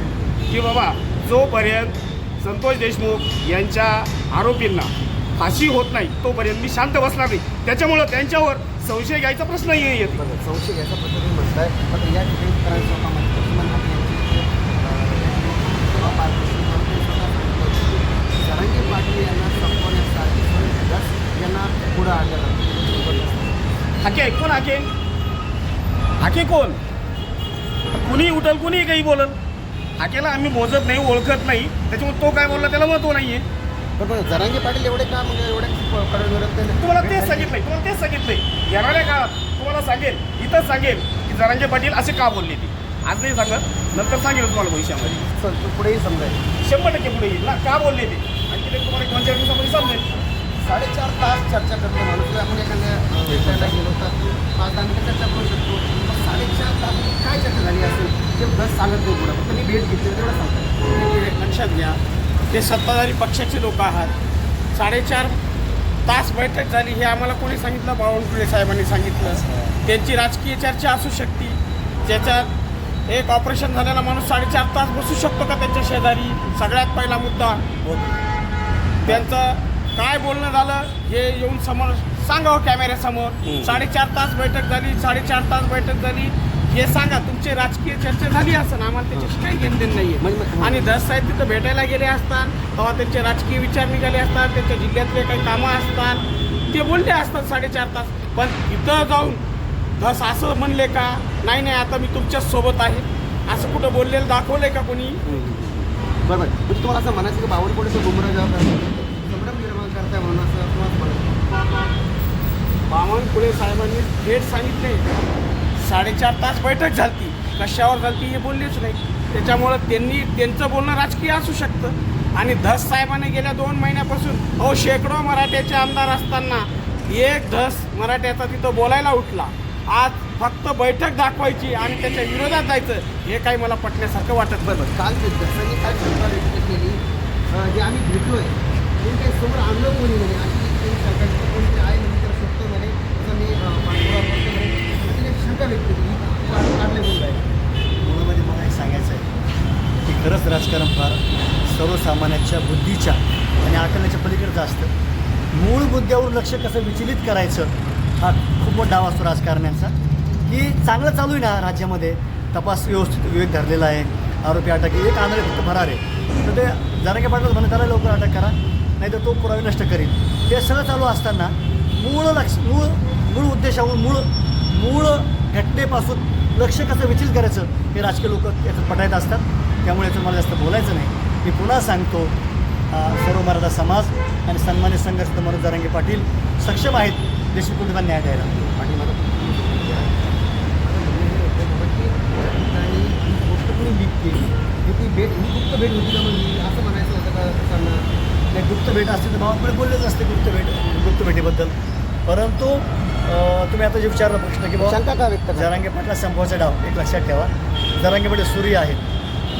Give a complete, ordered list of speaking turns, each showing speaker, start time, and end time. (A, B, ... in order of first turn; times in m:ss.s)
0:00.5-0:10.2 A
0:10.2-0:23.6 B
0:24.0-0:24.9 A
0:26.2-0:26.8 A
0:28.0-0:29.4 A
0:30.0-0:33.4 A
0:34.0-0:37.5 B
0:36.8-0:45.2 A
0:45.0-0:46.4 B
0:46.6-0:50.1 A
0:50.6-1:00.8 B
1:00.8-1:04.1 C
1:04.7-1:05.4 C
1:06.0-1:12.5 C
1:13.1-1:17.6 C
1:19.0-1:39.4 C
1:23.4-1:23.8 B
1:30.2-1:30.9 B
1:40.0-1:45.2 C
1:45.2-1:52.0 B
1:52.9-1:55.0 C
1:55.8-2:14.9 C
2:14.7-2:17.0 B
2:17.5-2:27.4 B
2:28.0-2:29.3 D
2:30.0-2:34.9 D
2:35.5-2:39.9 D
2:40.5-3:02.3 D
3:02.9-3:08.5 D
3:08.5-3:10.2 B
3:10.8-3:18.8 B
3:18.6-3:21.7 D
3:22.2-3:25.0 D
3:24.8-3:25.8 B
3:25.5-3:29.0 D